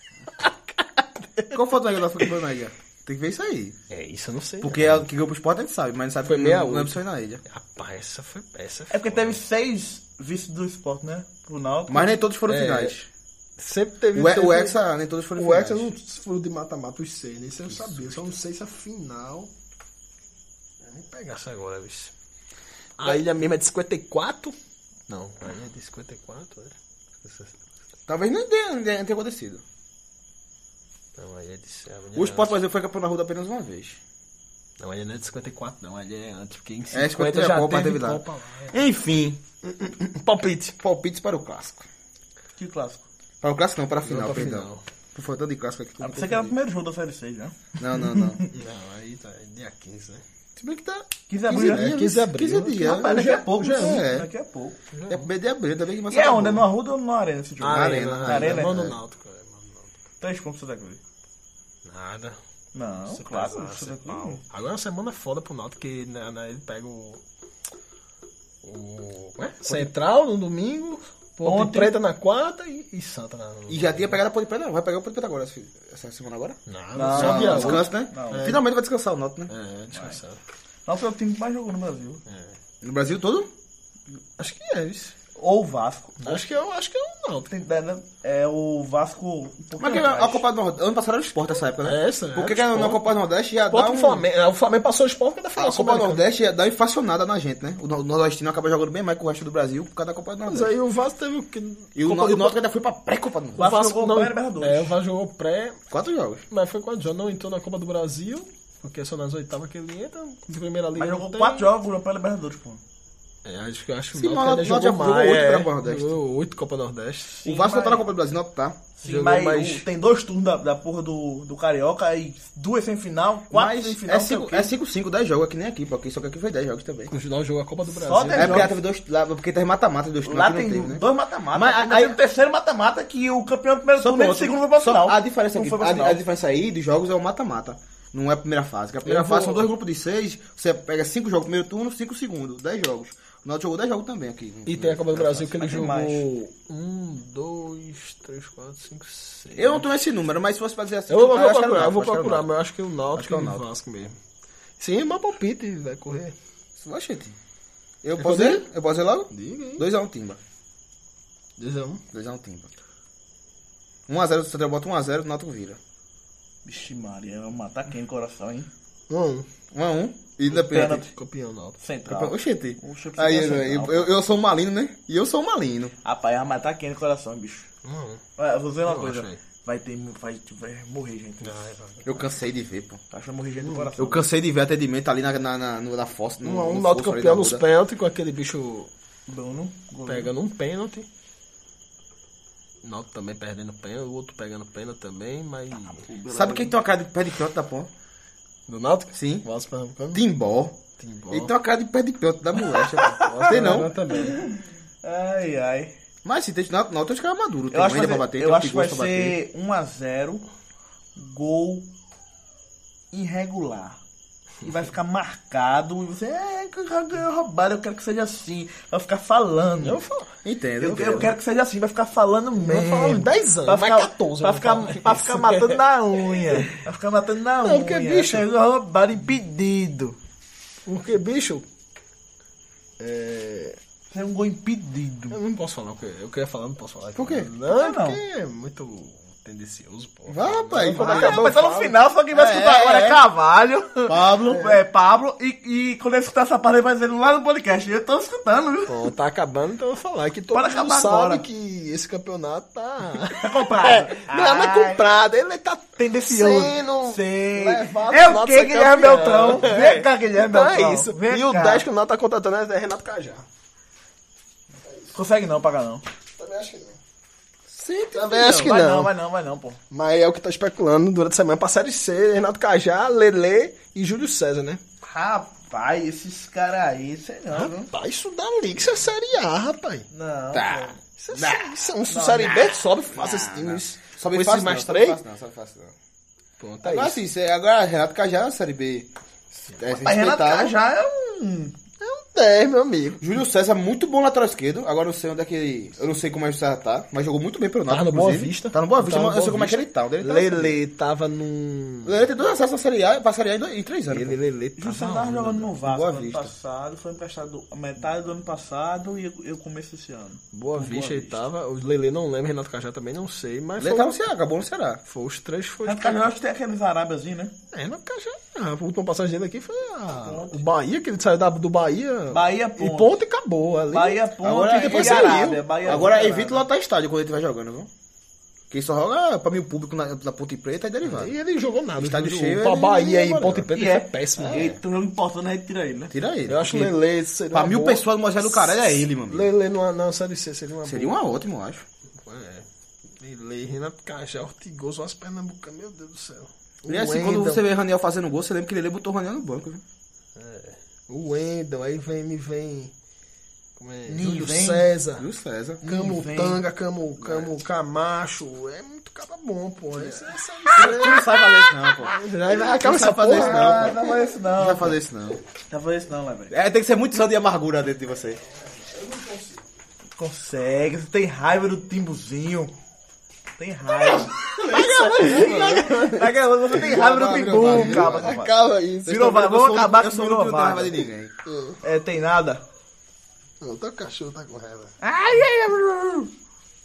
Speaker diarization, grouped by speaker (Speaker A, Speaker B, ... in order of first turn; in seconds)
Speaker A: 0.3-1.6, 3.9-5.0, 6.2-9.4, 12.5-13.0, 13.6-14.8, 15.4-19.5, 20.9-22.1, 23.0-24.6, 25.1-27.6, 31.2-32.6, 34.8-38.8, 39.7-40.8, 44.0-44.8, 48.5-50.2, 51.5-54.0, 54.9-55.3, 57.6-59.9, 61.9-62.4, 63.1-67.2, 68.6-74.2, 76.7-78.6, 79.5-80.4, 82.3-82.5, 84.4-85.2, 86.2-87.5, 91.8-93.1, 93.7-96.2, 100.5-102.6, 103.5-105.8, 106.5-111.7, 113.5-117.5, 119.0-119.9, 127.1-128.7, 139.1-139.7, 144.7-149.9, 151.1-154.2, 154.8-156.3, 158.2-158.7, 159.3-159.9, 161.6-162.0, 169.1-169.5, 170.8-171.8, 177.8-178.2, 178.9-179.4, 181.4-182.1, 186.4-188.9, 190.1-191.1, 192.8-196.1, 198.7-200.2, 201.0-201.5, 203.2-204.4, 219.8-220.4, 220.9-221.3, 222.6-226.8, 227.6-228.5, 230.9-231.7, 233.0-233.8, 235.3-242.0, 248.9-263.4, 264.9-265.1, 266.4-267.0, 268.1-269.1, 269.9-274.8, 277.5-280.1, 281.2-285.2, 286.6-287.2, 292.0-293.2, 297.9-302.2, 304.1-305.7, 310.5-314.2, 315.1-316.3, 317.7-324.2, 324.8-325.5, 331.0-334.8, 336.5-341.2, 342.2-342.7, 343.2-347.6, 350.4-352.9, 353.8-355.3, 355.8-361.4, 362.0-364.1, 368.9-369.6, 374.7-379.1, 381.5-381.8, 383.6-384.9
Speaker B: 1.5-3.8, 4.6-7.4, 11.9-13.1, 14.1-15.9, 28.1-29.6, 32.1-34.0, 36.9-39.4, 40.8-41.9, 43.4-46.5, 47.8-48.4, 50.6-54.3, 55.1-56.7, 57.7-59.0, 69.7-69.9, 73.7-79.5, 82.8-83.5, 89.8-94.3, 95.6-100.7, 102.0-103.7, 105.9-106.4, 114.1-116.2, 117.5-118.8, 123.5-127.1, 128.3-132.2, 134.0-145.5, 149.6-152.5, 153.2-153.6, 156.8-157.4, 158.0-160.4, 162.1-162.7, 164.1-165.8, 169.7-171.1, 172.1-175.9, 182.1-183.0, 184.0-187.7, 196.3-197.9, 199.1-199.5, 200.1-203.9, 206.2-209.4, 220.4-221.3, 237.2-237.5, 240.3-241.6, 242.3-243.2, 244.1-244.7, 267.7-268.8, 280.5-281.8, 283.1-285.9, 286.8-289.1, 289.7-290.7, 293.2-300.8, 302.1-304.4, 305.8-306.5, 313.8-315.0, 324.4-327.9, 328.7-331.3, 332.0-333.7, 334.4-334.7, 336.1-336.9, 337.5-339.5, 340.8-341.9, 346.9-349.8, 355.2-355.8, 357.2-357.5, 360.0-364.0, 364.6-365.4, 366.5-368.4, 374.3-381.3
Speaker C: 8.9-12.1, 42.6-43.0, 46.0-48.5, 51.3-51.9, 52.7-54.8, 56.1-58.8, 60.2-61.0, 62.8-64.4, 71.4-72.0, 77.0-78.6, 79.9-80.2, 80.9-82.2, 85.4-86.4, 87.5-90.5, 103.6-105.0, 111.0-112.8, 117.5-118.1, 119.0-124.7, 127.9-128.7, 130.2-136.2, 145.4-146.3, 166.7-168.7, 170.5-171.1, 171.8-174.1, 176.0-177.7, 178.4-181.8, 183.1-184.3, 189.3-190.3, 196.0-196.7, 202.7-205.9, 207.7-210.5, 211.2-211.9, 213.1-214.0, 214.6-220.0, 220.8-230.2, 234.1-235.4, 237.7-238.2, 241.0-249.1, 250.5-251.4, 253.3-255.0, 256.0-261.8, 265.1-266.0, 268.3-269.8, 275.0-277.9, 280.1-281.0, 282.1-282.8, 289.9-291.7, 304.8-311.4, 315.8-317.6, 320.2-320.6, 322.3-323.1, 323.9-326.7, 333.7-336.1, 354.1-354.9, 355.8-356.6, 363.3-364.9, 365.7-366.5, 370.2-372.8, 373.6-381.0, 381.8-382.6, 385.0-386.3